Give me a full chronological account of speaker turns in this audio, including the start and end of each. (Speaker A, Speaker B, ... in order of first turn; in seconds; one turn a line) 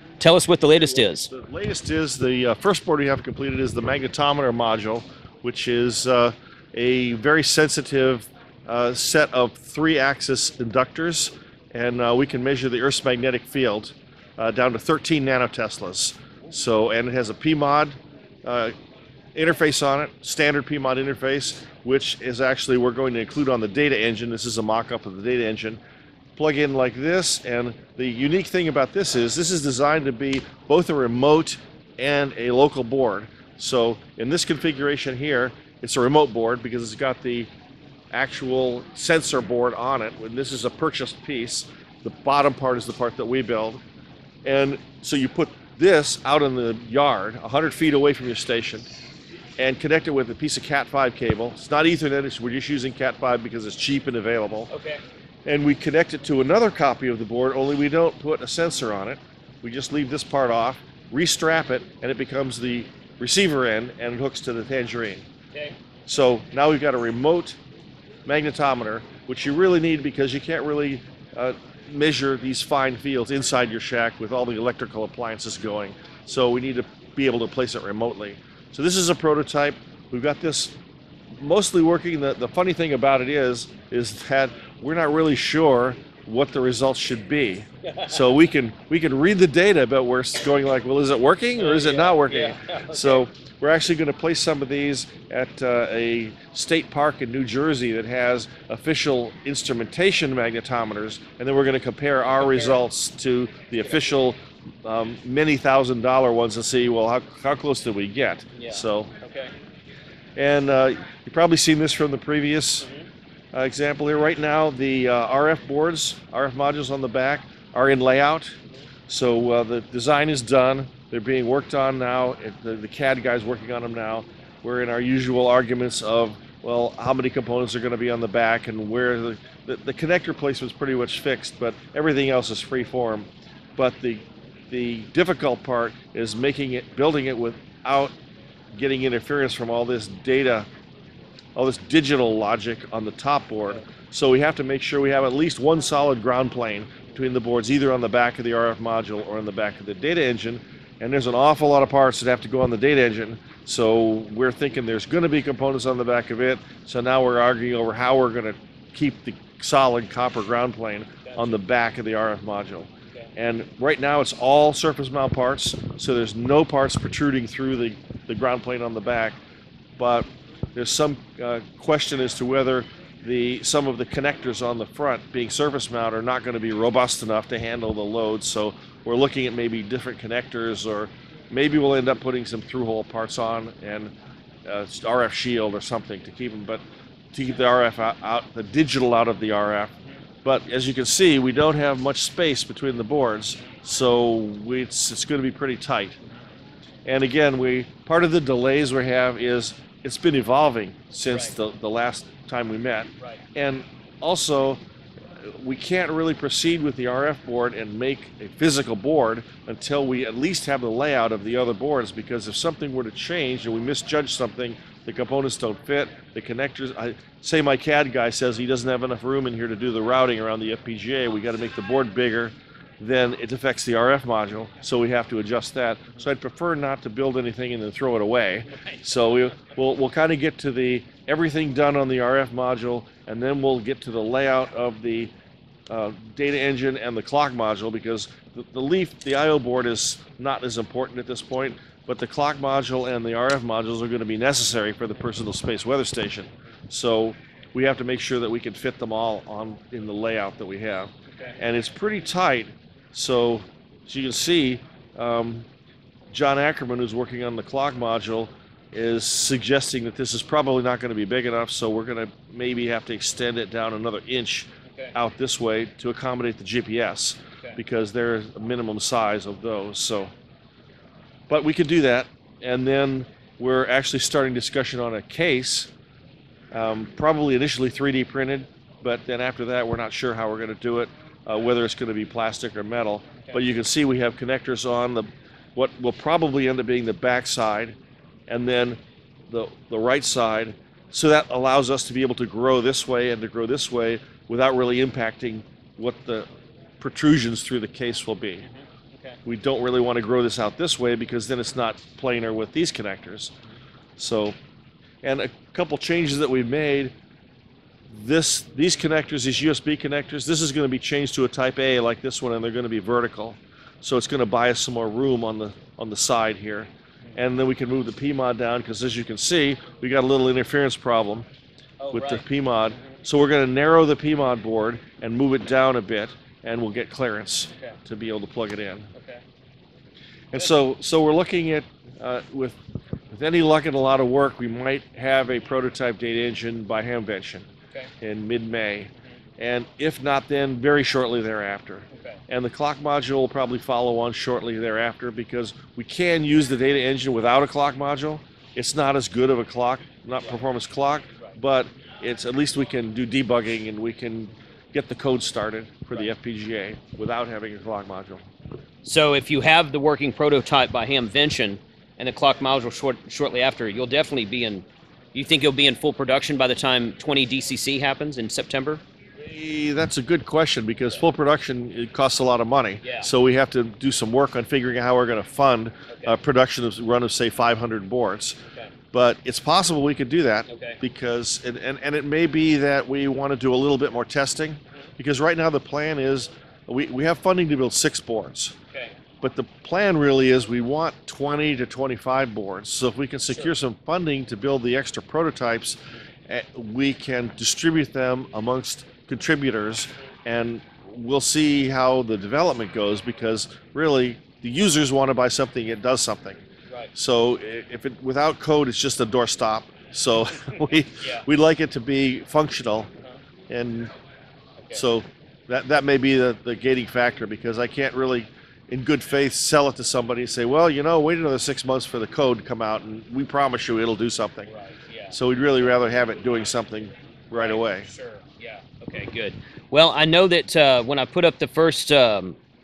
Speaker A: 0.2-1.3
Speaker B: 0.7-18.7
Speaker B: 19.3-25.8
Speaker B: 26.4-37.5
Speaker B: 38.1-43.8
Speaker B: 44.4-48.9
Speaker B: 49.6-54.7
Speaker A: 54.7-55.0
Speaker B: 55.4-65.2
Speaker B: 66.1-67.6
Speaker B: 68.2-80.8
Speaker B: 81.4-109.1
Speaker A: 91.6-93.2
Speaker A: 108.6-109.5
Speaker B: 110.3-112.9
Speaker B: 113.5-118.6
Speaker B: 119.1-138.1
Speaker B: 138.7-140.7
Speaker B: 141.5-169.4
Speaker A: 161.3-161.5
Speaker B: 170.0-184.1
Speaker B: 184.7-189.9
Speaker B: 190.4-196.2
Speaker B: 197.0-204.8
Speaker A: 201.3-201.5
Speaker B: 205.5-235.3
Speaker B: 235.9-255.7
Speaker B: 256.3-270.3
Speaker B: 271.5-275.9
Speaker B: 276.7-288.0
Speaker B: 288.5-289.0
Speaker B: 289.5-296.5
Speaker B: 297.0-298.6
Speaker A: 298.6-299.4
Speaker B: 299.4-303.5
Speaker B: 304.2-304.6
Speaker B: 305.2-307.1
Speaker B: 308.1-321.5
Speaker A: 322.0-322.4
Speaker B: 322.1-329.1
Speaker A: 329.1-329.4
Speaker B: 330.5-332.8
Speaker B: 333.3-337.6
Speaker B: 338.2-358.4
Speaker A: 359.0-369.0
Speaker B: 369.4-378.6
Speaker B: 379.1-388.8
Speaker A: 380.7-381.0
Speaker B: 389.4-406.6
Speaker B: 407.1-413.1
Speaker B: 413.7-414.1
Speaker B: 414.9-424.7
Speaker A: 424.7-425.4
Speaker B: 425.3-428.1
Speaker A: 427.6-432.6